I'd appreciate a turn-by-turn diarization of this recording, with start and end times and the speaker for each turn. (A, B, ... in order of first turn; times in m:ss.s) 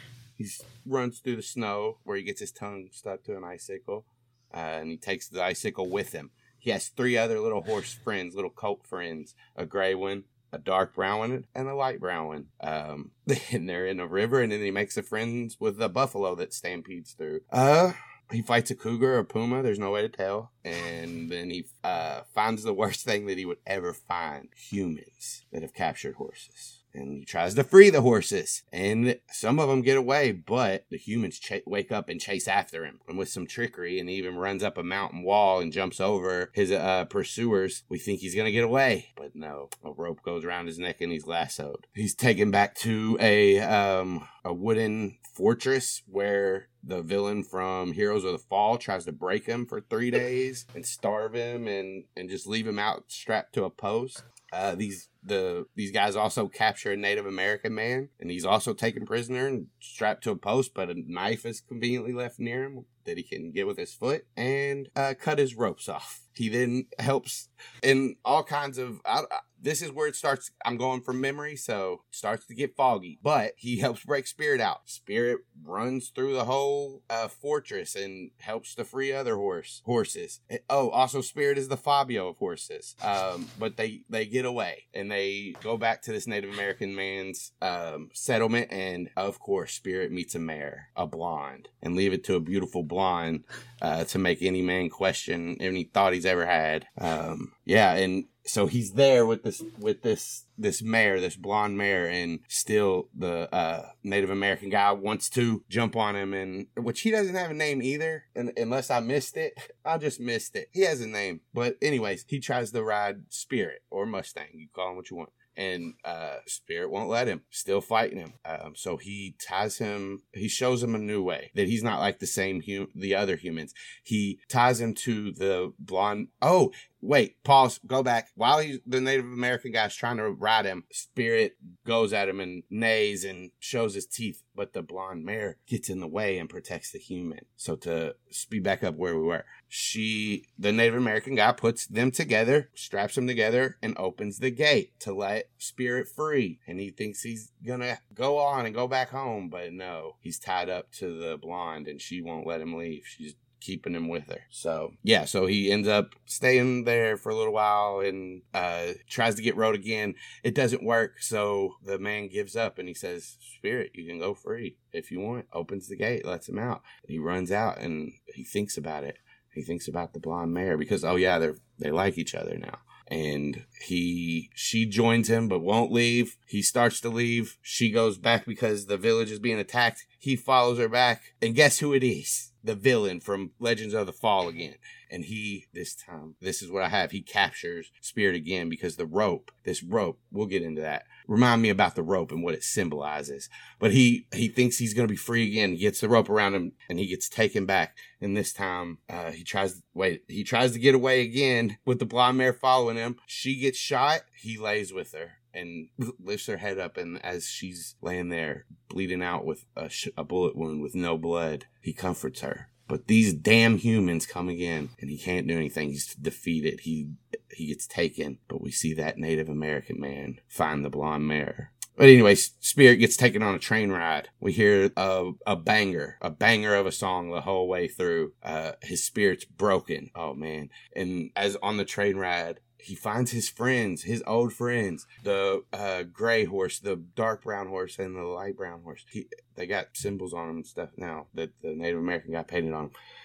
0:00.4-4:02.9 A